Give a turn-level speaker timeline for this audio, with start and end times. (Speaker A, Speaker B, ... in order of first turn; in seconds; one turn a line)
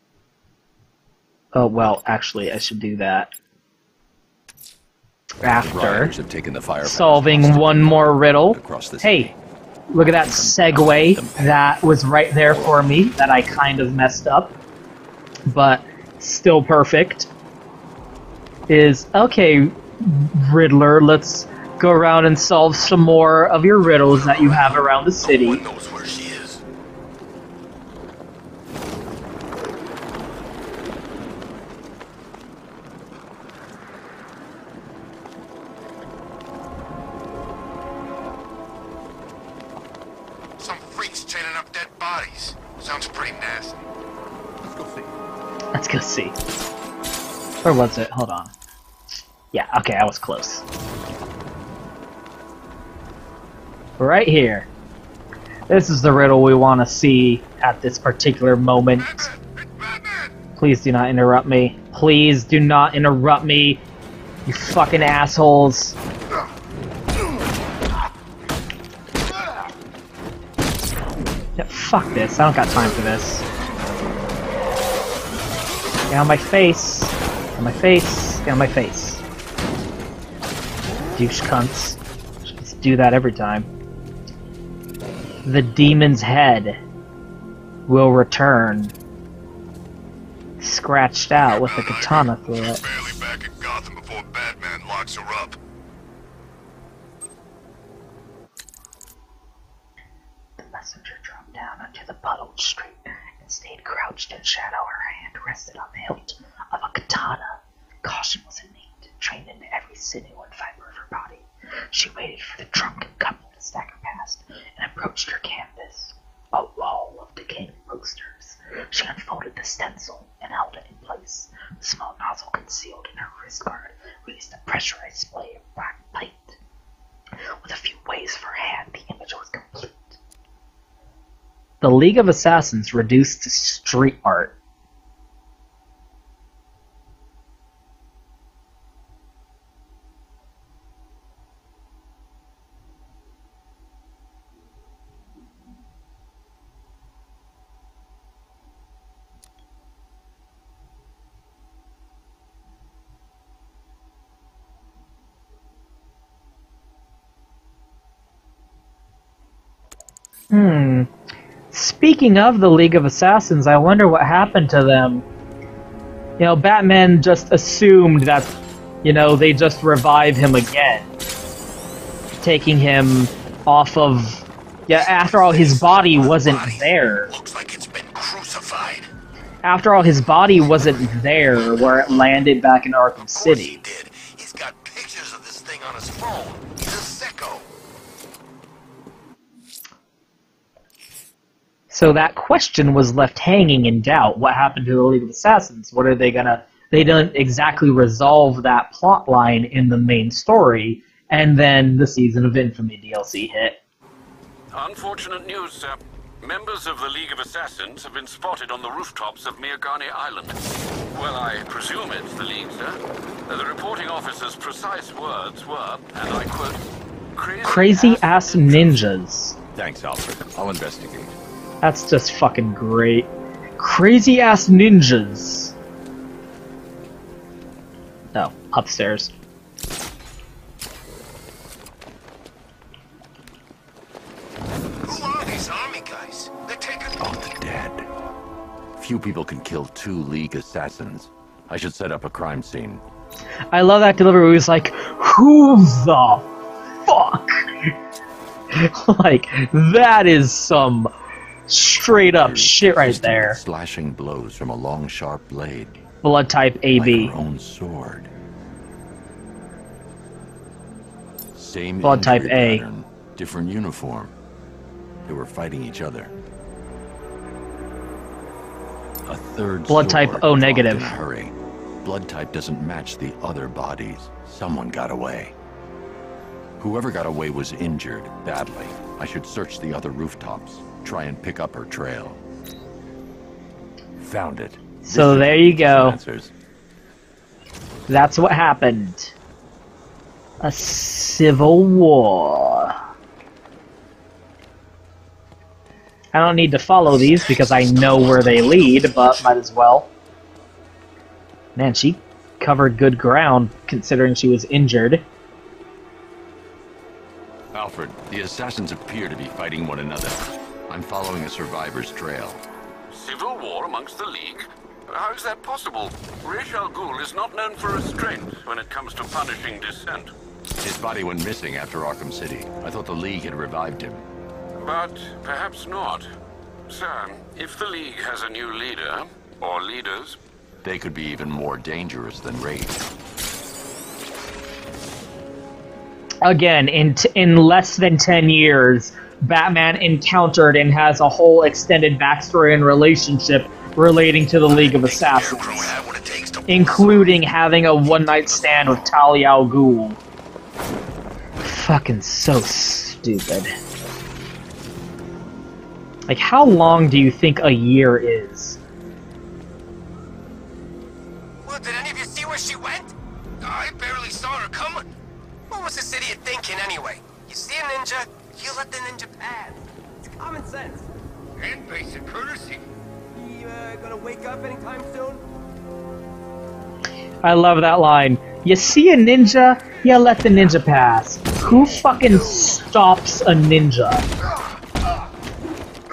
Speaker A: 1.5-3.3
Speaker A: 5.4-6.1
Speaker B: 5.6-9.3
Speaker A: 6.8-9.3
Speaker A: 9.9-14.5
Speaker B: 10.0-11.7
Speaker B: 12.5-12.8
Speaker A: 15.5-17.3
Speaker A: 18.7-25.6
Speaker C: 24.0-26.6
Speaker C: 40.6-43.8
Speaker A: 45.7-46.3
Speaker A: 47.6-48.5
Speaker A: 49.5-50.6
Speaker A: 54.0-54.7
Speaker A: 55.7-59.3
Speaker C: 59.0-60.3
Speaker A: 60.5-63.8
Speaker A: 64.5-66.0
Speaker A: 71.6-73.4
Speaker A: 76.1-79.2
Speaker A: 81.1-83.7
Speaker A: 85.4-86.8
Speaker A: 87.9-88.9
Speaker A: 90.6-92.8
Speaker C: 91.4-95.6
Speaker A: 100.6-126.6
Speaker A: 127.6-130.2
Speaker A: 131.8-134.5
Speaker A: 160.5-161.1
Speaker A: 161.7-165.2
Speaker A: 166.4-171.1
Speaker A: 172.4-177.3
Speaker C: 174.9-179.1
Speaker A: 179.6-183.8
Speaker C: 180.7-182.2
Speaker C: 183.2-187.7
Speaker A: 191.9-203.8
Speaker D: 204.7-210.6
Speaker D: 211.1-216.8
Speaker D: 217.3-219.0
Speaker A: 217.6-219.6
Speaker B: 219.7-221.3
Speaker A: 221.8-225.7
Speaker A: 228.3-229.3
Speaker C: 235.0-237.4
Speaker B: 237.2-238.0
Speaker B: 239.0-243.0
Speaker A: 243.7-246.5
Speaker A: 247.1-247.6
Speaker A: 248.7-251.1
Speaker A: 251.7-253.6
Speaker B: 252.1-256.0
Speaker A: 256.2-257.3
Speaker B: 256.9-258.3
Speaker B: 261.5-264.3
Speaker A: 262.0-262.8
Speaker B: 265.2-266.3
Speaker B: 269.2-275.5
Speaker A: 269.9-271.1
Speaker B: 276.8-282.4
Speaker B: 284.2-286.5
Speaker A: 285.0-286.2
Speaker A: 288.1-289.3
Speaker A: 290.6-292.9
Speaker A: 296.3-300.1
Speaker C: 297.2-299.5
Speaker A: 301.8-305.2
Speaker B: 307.7-312.6
Speaker D: 313.1-320.3
Speaker B: 320.8-324.2
Speaker D: 324.8-326.3
Speaker D: 326.9-330.4
Speaker B: 330.8-333.0
Speaker A: 336.4-345.9
Speaker C: 344.7-347.4
Speaker A: 346.7-350.2
Speaker C: 348.0-349.1
Speaker A: 351.6-353.7
Speaker A: 356.3-358.8
Speaker E: 361.6-363.1
Speaker C: 363.6-365.1
Speaker E: 365.7-369.8
Speaker E: 370.4-371.1
Speaker C: 371.6-372.8
Speaker E: 373.3-375.4
Speaker A: 377.4-384.2